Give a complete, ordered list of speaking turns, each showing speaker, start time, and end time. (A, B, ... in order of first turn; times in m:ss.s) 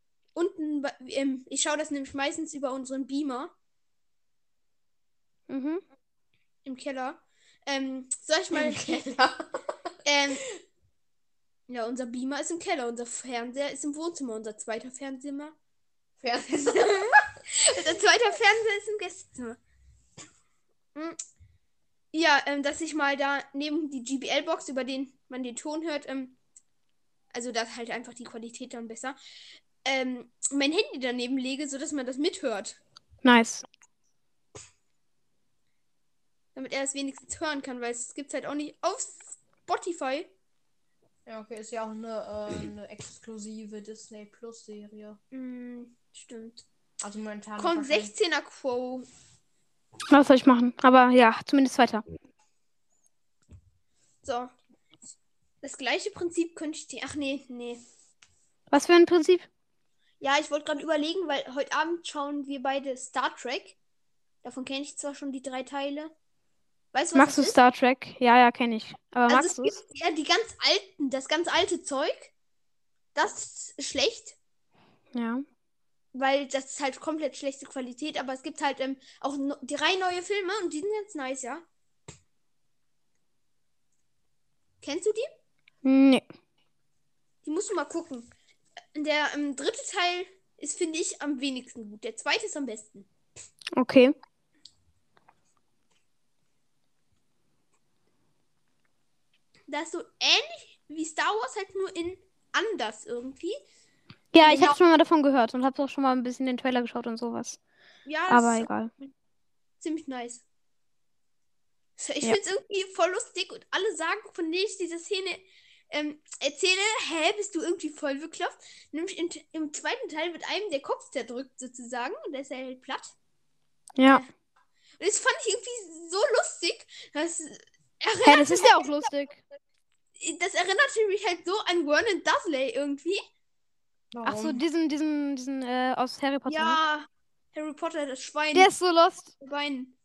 0:00.3-0:03.5 A
0:05.5-0:05.8 B
0:06.6-0:09.0 A
0:08.5-0:09.4 C
0:10.0-0:10.4 A
0:11.7-0:15.5 A
0:16.2-0:17.1 C
0:17.6-0:19.6 A
0:22.1-0:26.4 A
0:27.3-0:29.2 A
0:29.8-0:32.8 A
0:33.2-0:33.6 B
0:36.5-0:40.3 A
0:41.2-0:45.2 C
0:45.3-0:46.6 A
0:47.0-0:48.1 C
0:47.6-0:49.1 A
0:50.1-0:52.0 B
0:54.2-0:54.5 A
0:55.6-0:57.8 A
0:58.7-0:59.5 B
1:00.2-1:03.8 A
1:04.4-1:06.1 A
1:06.9-1:07.6 A
1:07.1-1:09.8 B
1:09.3-1:12.3 A
1:13.1-1:14.4 A
1:15.1-1:15.4 B
1:16.1-1:21.6 A
1:24.8-1:25.3 A
1:25.8-1:26.2 B
1:27.4-1:28.3 A
1:28.9-1:33.1 A
1:33.8-1:34.1 B
1:39.7-1:43.6 A
1:44.3-1:47.6 B
1:44.4-1:44.8 A
1:48.0-1:48.7 A
1:48.3-1:48.9 B
1:49.8-1:50.4 A
1:52.0-2:03.1 A
2:04.0-2:04.2 B
2:04.0-2:04.3 A
2:05.0-2:08.9 A
2:08.2-2:09.4 B
2:10.2-2:13.2 A
2:14.1-2:14.6 C
2:14.2-2:16.8 B
2:16.4-2:18.7 A
2:18.5-2:19.3 B
2:19.4-2:19.9 A